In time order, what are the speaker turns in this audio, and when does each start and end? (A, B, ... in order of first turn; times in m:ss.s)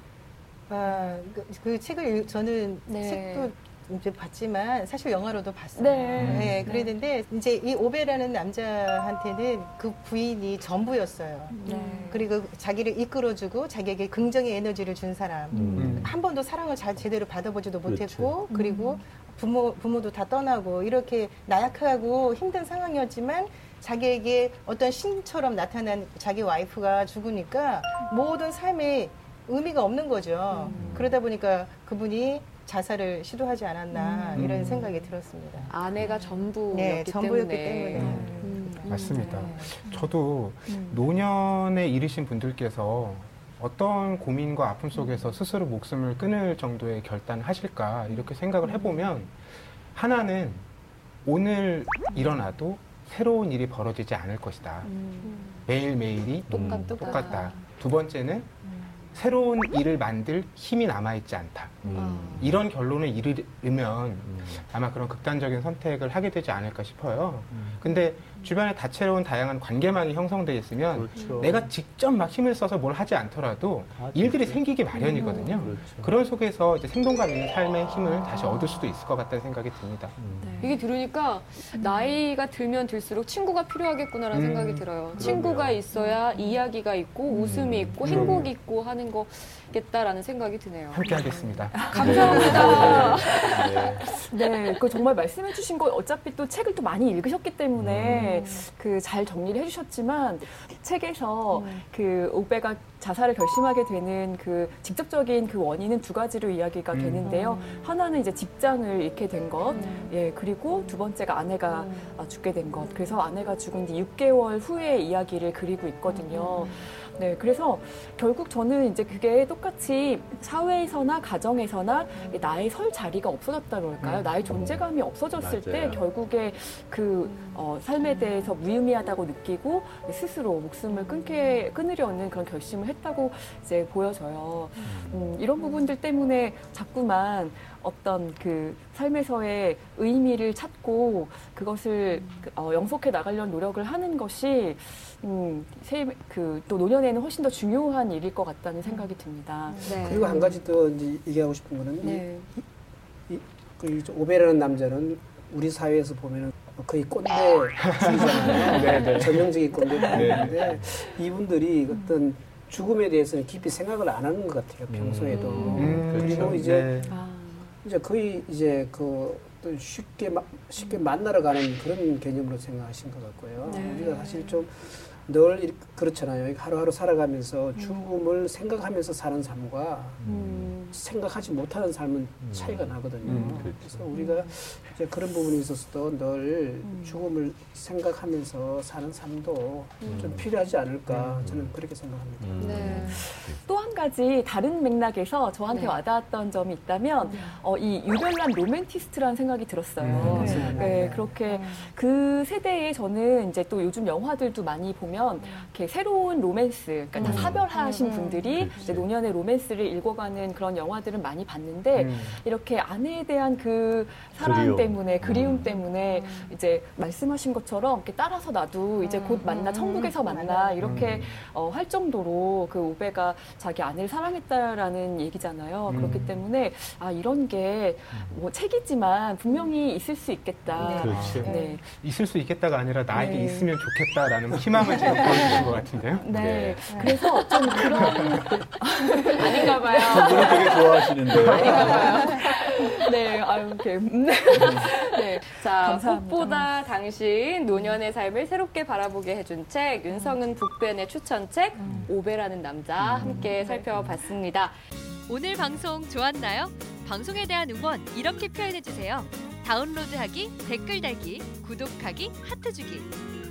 0:00.7-0:35.7 A
0:02.9-0:03.2 B
0:02.9-0:03.5 C
0:05.8-0:06.8 B
0:06.2-0:06.7 D
0:06.3-0:06.9 C
0:11.6-0:12.2 C
0:11.6-0:12.3 B
0:15.5-0:16.1 E
0:15.8-0:16.1 D
0:17.8-0:18.4 E
0:18.5-0:18.9 B
0:30.5-0:31.0 C
0:30.7-0:31.0 B
0:34.0-0:34.4 C
0:34.4-0:34.9 D
0:35.7-0:40.0 C
0:36.7-0:39.6 A
0:37.9-0:49.4 D
0:40.7-0:41.0 B
0:48.1-0:48.9 C
0:49.9-0:50.6 D
0:51.2-0:54.9 D
0:54.8-0:55.6 C
0:55.6-0:58.5 D
0:56.5-0:57.6 C
0:56.5-0:57.1 E
0:59.1-1:20.2 D
1:01.8-1:02.6 E
1:01.9-1:02.5 C
1:04.2-1:04.6 E
1:07.5-1:07.8 E
1:10.9-1:11.7 E
1:11.2-1:11.5 C
1:14.0-1:14.6 E
1:15.0-1:15.6 C
1:15.2-1:16.1 E
1:18.2-1:18.8 C
1:20.2-1:20.7 E
1:20.4-1:20.8 B
1:20.6-1:34.2 C
1:21.8-1:22.1 B
1:24.3-1:24.9 D
1:25.1-1:25.9 E
1:25.9-1:26.6 B
1:27.3-1:27.6 B
1:27.4-1:28.5 E
1:28.0-1:28.5 D
1:30.9-1:33.2 D
1:31.7-2:30.0 B
1:32.0-1:34.1 E
1:37.8-1:38.3 E
1:38.1-1:38.6 C
1:41.5-1:41.8 C
1:46.9-1:47.2 D
1:47.2-1:47.8 C
1:49.7-1:50.2 C
1:56.1-1:56.8 C
2:04.0-2:04.3 D
2:04.5-2:06.0 E
2:07.3-2:07.6 C
2:14.8-2:15.4 E
2:22.1-2:22.5 C
2:28.9-2:29.1 C
2:29.7-2:32.7 F
2:29.8-2:30.6 C
2:32.0-2:32.5 C
2:33.3-2:47.1 F
2:37.9-2:39.6 D
2:40.1-2:40.9 E
2:44.9-2:47.1 E
2:45.3-2:45.9 C
2:45.5-2:46.0 B
2:45.7-2:46.6 D
2:47.1-2:47.7 B
2:47.8-3:00.3 F
2:53.6-2:54.6 C
2:57.8-2:58.2 C
3:00.2-3:00.8 E
3:00.3-3:01.0 C
3:00.9-3:13.0 F
3:02.4-3:04.1 E
3:03.3-3:04.6 C
3:06.8-3:07.2 C
3:10.0-3:10.4 C
3:10.0-3:10.5 E
3:11.1-3:11.8 E
3:12.4-3:13.6 E
3:12.6-3:13.2 C
3:12.7-3:51.9 B
3:15.7-3:16.0 C
3:17.2-3:17.6 C
3:20.0-3:20.4 E
3:20.0-3:21.4 F
3:20.2-3:21.9 C
3:25.4-3:25.7 C
3:27.2-3:28.6 C
3:27.2-3:27.7 E
3:28.5-3:29.1 E
3:32.0-3:32.4 D
3:34.4-3:35.7 E
3:35.4-3:36.5 C
3:39.0-3:40.8 A
3:39.4-3:39.7 C
3:40.8-3:41.3 D
3:40.8-3:41.4 E
3:45.9-3:46.4 D
3:48.1-3:48.4 E
3:50.8-3:51.8 C
3:50.8-3:51.5 E
3:51.0-3:56.2 D
3:53.1-3:53.7 B
3:55.2-3:55.6 B
3:55.2-3:55.7 E
3:56.2-4:06.7 B
3:56.3-3:57.2 E
3:59.3-4:01.0 C
3:59.6-4:02.4 E
4:01.6-4:02.9 C
4:04.6-4:04.8 E
4:04.8-4:14.8 C
4:10.1-4:10.4 B
4:11.8-4:12.1 B
4:13.2-4:14.0 B
4:15.3-4:23.1 G